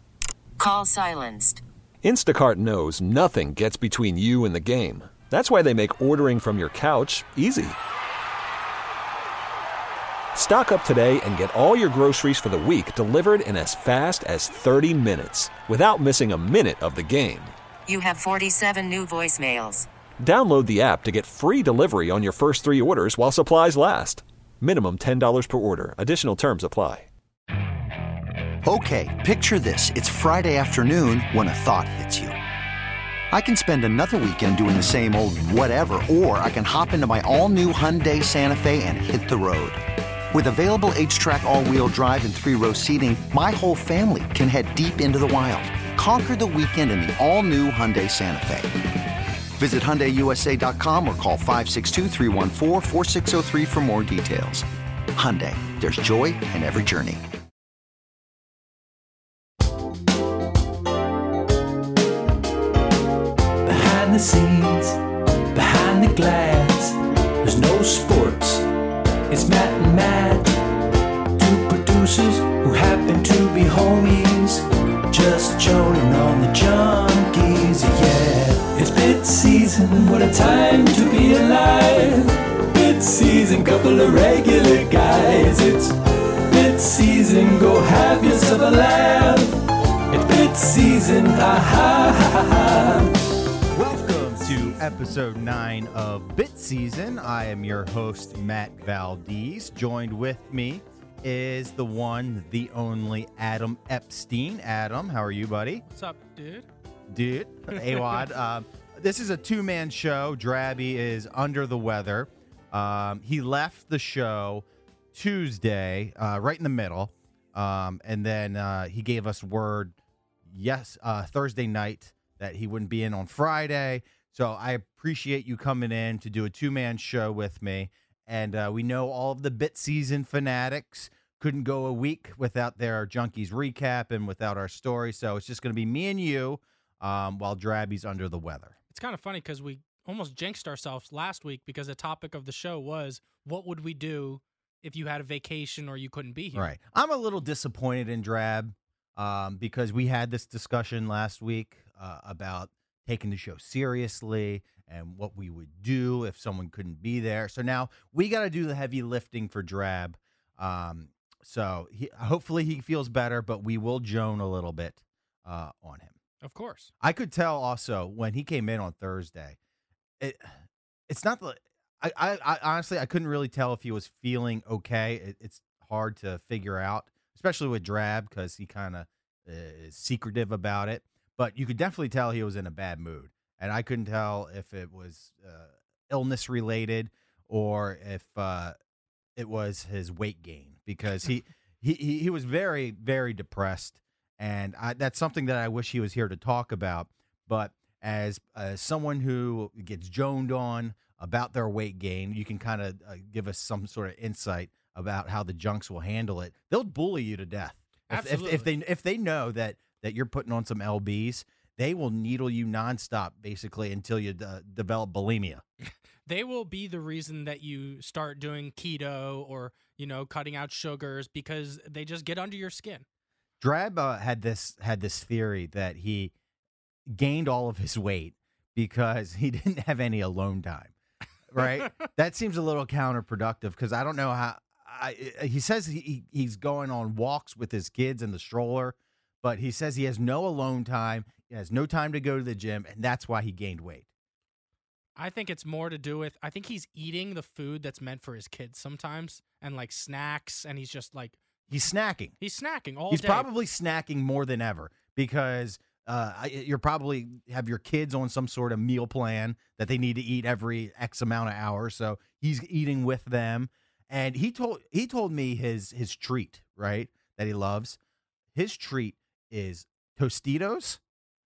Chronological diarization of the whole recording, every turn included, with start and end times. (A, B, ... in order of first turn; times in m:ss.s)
0:00.6-0:01.6 A
0:02.0-0:07.8 B
0:10.3-0:17.5 B
0:17.9-0:19.9 A
0:20.2-0:27.1 B
0:28.6-0:32.4 C
0:33.3-0:48.8 C
0:49.6-0:57.2 C
1:03.6-1:05.0 D
1:05.5-1:08.6 D
1:09.3-1:10.6 D
1:11.4-1:29.6 D
1:30.1-1:33.1 D
1:33.7-1:45.8 E
1:45.9-1:46.7 F
1:47.1-2:18.8 E
1:47.9-1:48.2 F
2:18.9-2:26.7 F
2:26.5-2:46.2 E
2:46.4-2:46.9 F
2:47.0-2:49.6 E
2:50.2-2:50.6 E
2:51.1-3:08.8 E
3:09.4-3:35.6 E
3:28.1-3:28.7 F
3:36.3-3:43.0 F
3:43.6-3:46.3 E
3:47.1-3:51.0 E
3:51.5-4:04.1 E
4:05.2-4:11.4 F
4:11.7-4:12.4 E
4:12.4-4:13.5 F
4:13.1-4:28.0 E
4:28.5-4:31.0 E